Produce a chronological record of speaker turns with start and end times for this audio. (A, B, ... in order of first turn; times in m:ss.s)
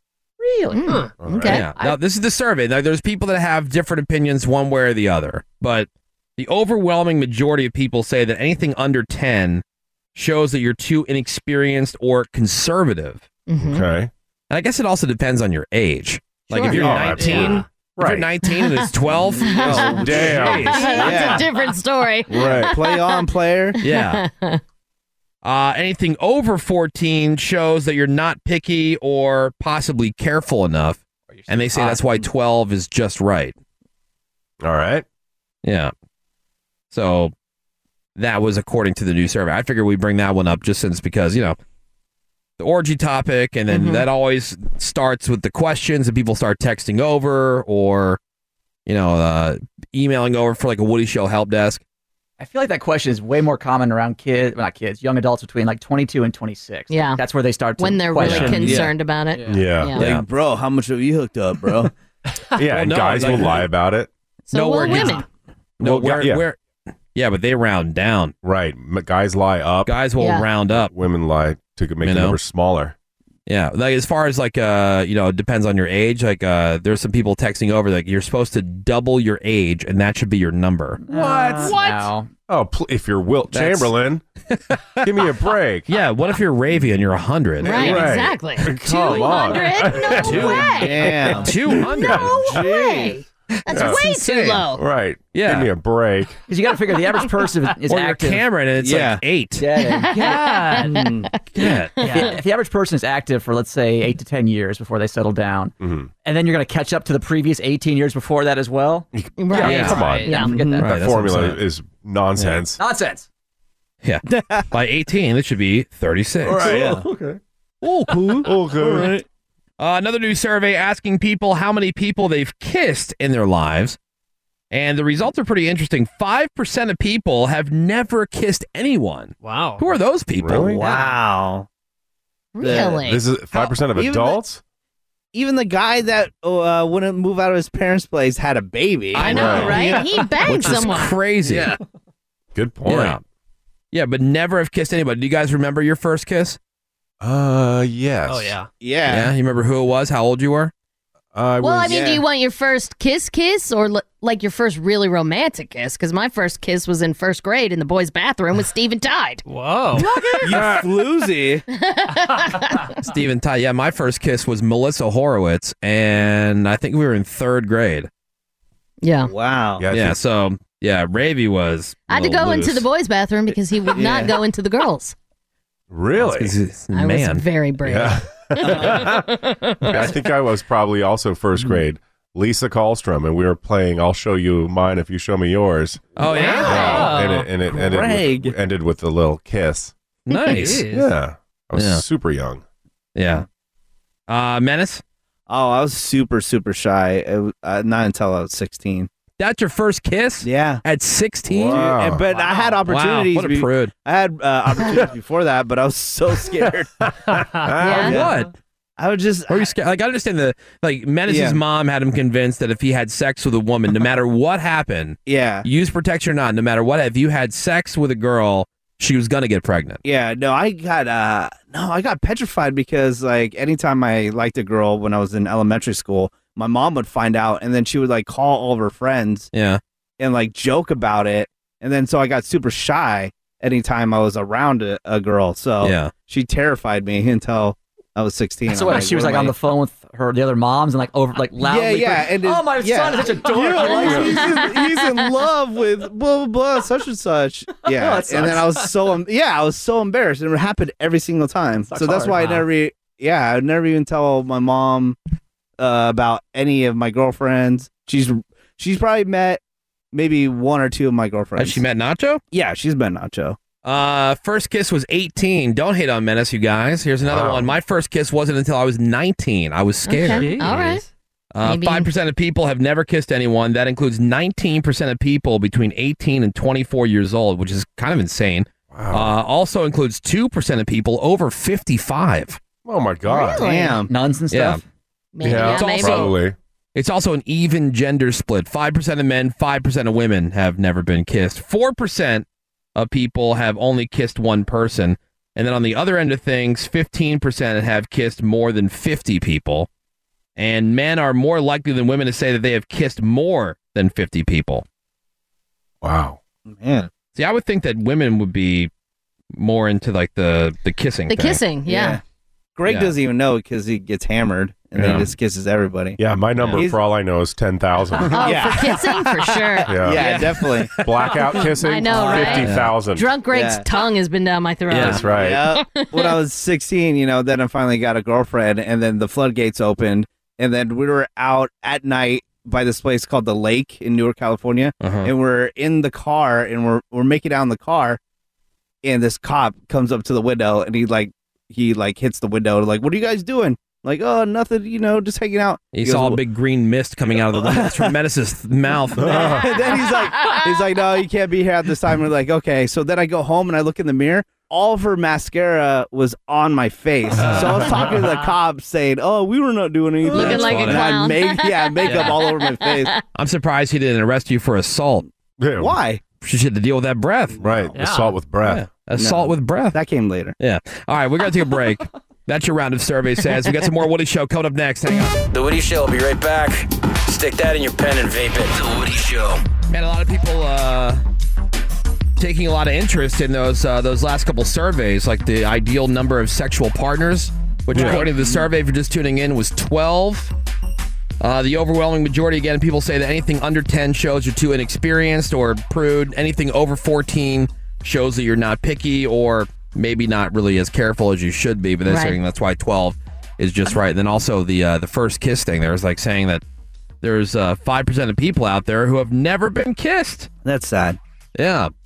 0:00.4-0:02.0 A
0:01.2-0:01.6 B
0:01.4-0:09.6 C
0:10.2-0:13.3 C
0:13.5-0:13.9 A
0:13.6-0:14.1 B
0:14.5-0:20.7 C
0:16.5-0:17.6 A
0:16.6-0:18.3 B
0:18.4-0:24.6 A
0:19.4-0:21.5 D
0:19.8-0:20.9 B
0:22.3-0:23.8 D
0:22.4-0:22.7 B
0:23.8-0:24.2 C
0:25.4-0:33.6 C
0:31.3-0:32.0 E
0:34.6-0:35.0 B
0:35.6-0:35.9 C
0:36.9-0:37.3 C
0:38.2-0:41.6 C
0:42.6-0:48.2 C
0:43.7-0:44.1 A
0:48.9-0:51.8 C
0:52.4-0:59.7 E
0:56.9-0:57.2 A
0:57.8-1:00.0 A
0:58.2-0:58.9 B
0:58.5-0:58.9 D
0:59.5-1:00.2 B
1:00.0-1:00.2 C
1:00.0-1:01.9 D
1:02.6-1:04.1 B
1:02.7-1:03.6 C
1:04.5-1:05.3 A
1:04.5-1:05.2 C
1:05.8-1:06.6 C
1:05.8-1:06.4 B
1:07.2-1:08.4 C
1:08.4-1:10.0 B
1:09.9-1:10.9 C
1:10.2-1:10.5 A
1:10.7-1:12.9 B
1:12.0-1:12.4 C
1:13.5-1:21.0 C
1:21.0-1:22.3 E
1:21.1-1:21.9 B
1:21.6-1:22.0 F
1:22.5-1:24.2 B
1:23.5-1:23.9 C
1:24.6-1:25.0 C
1:25.0-1:25.9 B
1:25.9-1:28.2 C
1:27.6-1:34.8 A
1:27.7-1:30.7 B
1:30.1-1:32.6 C
1:30.6-1:31.5 D
1:31.9-1:32.8 B
1:32.6-1:33.1 D
1:33.7-1:36.4 B
1:34.0-1:34.3 D
1:35.3-1:35.7 C
1:36.5-1:38.4 E
1:37.9-1:39.7 C
1:38.8-1:39.2 D
1:39.6-1:40.2 E
1:39.8-1:42.4 A
1:40.1-1:41.3 D
1:40.2-1:41.0 F
1:41.5-1:42.2 C
1:42.1-1:50.9 E
1:45.8-1:46.1 B
1:49.1-1:52.8 B
1:49.4-1:50.6 A
1:49.6-1:50.1 C
1:49.6-1:50.5 F
1:50.3-1:50.8 D
1:50.8-1:51.6 C
1:52.8-1:53.3 E
1:54.0-1:56.9 C
1:54.3-1:54.7 D
1:56.4-1:57.0 B
1:56.6-1:57.1 D
1:57.8-1:58.4 C
1:58.1-1:59.2 D
1:58.4-1:59.1 B
1:59.8-2:04.0 C
2:04.7-2:10.8 C
2:09.4-2:09.9 F
2:10.4-2:10.8 B
2:10.7-2:11.7 D
2:12.5-2:13.2 A
2:12.6-2:14.4 D
2:12.6-2:14.6 B
2:15.3-2:20.0 D
2:19.2-2:21.2 A
2:19.2-2:21.7 C
2:19.3-2:19.8 B
2:22.6-2:23.2 B
2:22.8-2:23.2 C
2:23.9-2:26.6 C
2:27.2-2:28.6 B
2:28.3-2:28.7 F
2:28.8-2:29.3 D
2:29.1-2:30.7 C
2:31.3-2:32.2 B
2:31.6-2:39.4 A
2:31.8-2:32.2 D
2:39.5-2:40.4 F
2:40.0-2:41.6 D
2:40.5-2:40.9 B
2:41.7-2:43.0 A
2:43.1-2:48.1 C
2:49.0-2:49.3 A
2:49.3-2:49.9 D
2:49.8-2:50.2 B
2:49.9-2:52.9 C
2:52.1-2:55.2 A
2:53.9-2:54.4 D
2:55.9-2:56.6 B
2:56.2-2:57.4 C
2:56.9-3:00.2 A
2:57.8-2:59.3 B
2:59.8-3:09.9 B
3:06.2-3:07.1 C
3:06.3-3:07.5 F
3:06.3-3:07.1 A
3:07.7-3:08.5 D
3:10.3-3:10.8 C
3:10.5-3:11.2 F
3:10.5-3:12.6 B
3:11.8-3:12.0 C
3:13.2-3:13.4 C
3:14.3-3:15.0 C
3:15.5-3:19.1 D
3:19.4-3:21.9 C
3:20.4-3:20.8 D
3:21.5-3:22.2 B
3:21.7-3:26.9 D
3:22.3-3:22.7 F
3:22.8-3:23.9 C
3:27.3-3:28.0 B
3:27.8-3:28.3 A
3:27.9-3:28.5 C
3:27.9-3:28.3 D
3:29.0-3:29.7 D
3:29.5-3:40.0 C
3:31.3-3:31.6 D
3:35.3-3:35.7 D
3:40.0-3:49.5 D
3:49.5-3:49.8 C
3:50.2-3:59.6 D
3:55.8-3:56.1 C
3:58.7-4:04.6 E
4:01.6-4:15.2 D
4:03.8-4:05.1 A
4:07.9-4:08.9 E
4:11.9-4:12.7 E
4:15.8-4:19.6 D
4:20.1-4:21.8 D
4:21.6-4:22.4 C
4:22.5-4:23.6 D
4:23.8-4:30.9 C
4:27.2-4:27.8 B
4:30.1-4:31.0 A
4:30.3-4:31.0 F
4:31.5-4:42.6 C
4:31.6-4:32.1 A
4:38.9-4:39.4 B
4:42.8-4:43.6 B
4:43.3-4:44.0 A
4:43.6-4:44.1 D
4:44.1-4:44.8 E
4:44.5-4:44.8 C
4:45.3-4:46.4 A
4:45.4-4:46.6 B
4:45.4-4:46.4 C
4:47.0-4:59.9 C
5:00.6-5:04.8 C
5:06.0-5:06.4 B
5:06.7-5:07.1 D
5:07.4-5:08.9 C
5:09.5-5:11.6 C
5:11.3-5:12.2 A
5:11.9-5:12.2 D
5:12.8-5:16.2 D
5:12.9-5:13.1 C
5:15.0-5:15.3 C
5:16.2-5:18.6 B
5:16.6-5:16.8 C
5:16.7-5:17.0 D
5:18.3-5:20.1 A
5:18.3-5:21.0 D
5:19.9-5:20.4 B
5:20.2-5:20.7 C
5:21.0-5:23.3 B
5:21.7-5:26.4 A
5:22.1-5:22.6 D
5:22.6-5:23.0 C
5:23.5-5:23.9 D
5:24.9-5:25.2 C
5:25.0-5:25.6 B
5:25.2-5:38.2 D
5:35.0-5:35.3 C
5:39.0-5:46.4 D
5:45.9-5:49.6 C
5:47.5-5:48.2 D
5:49.2-5:49.7 B
5:49.3-6:03.1 D
5:50.0-5:50.6 A
5:57.4-5:58.1 C
6:00.2-6:03.2 A
6:00.3-6:01.2 C
6:02.1-6:02.4 C
6:03.4-6:05.3 C
6:05.6-6:06.0 B
6:05.8-6:06.2 D
6:06.4-6:07.6 C
6:07.6-6:08.9 B
6:08.0-6:08.4 F
6:08.6-6:10.0 C
6:09.2-6:10.6 D
6:10.6-6:15.4 C
6:15.5-6:19.6 G
6:19.9-6:21.2 C
6:22.4-6:30.5 C
6:27.9-6:28.3 B
6:31.4-6:46.6 C
6:42.0-6:42.4 A
6:47.2-6:50.5 C
6:50.6-6:51.2 D
6:51.6-6:51.9 C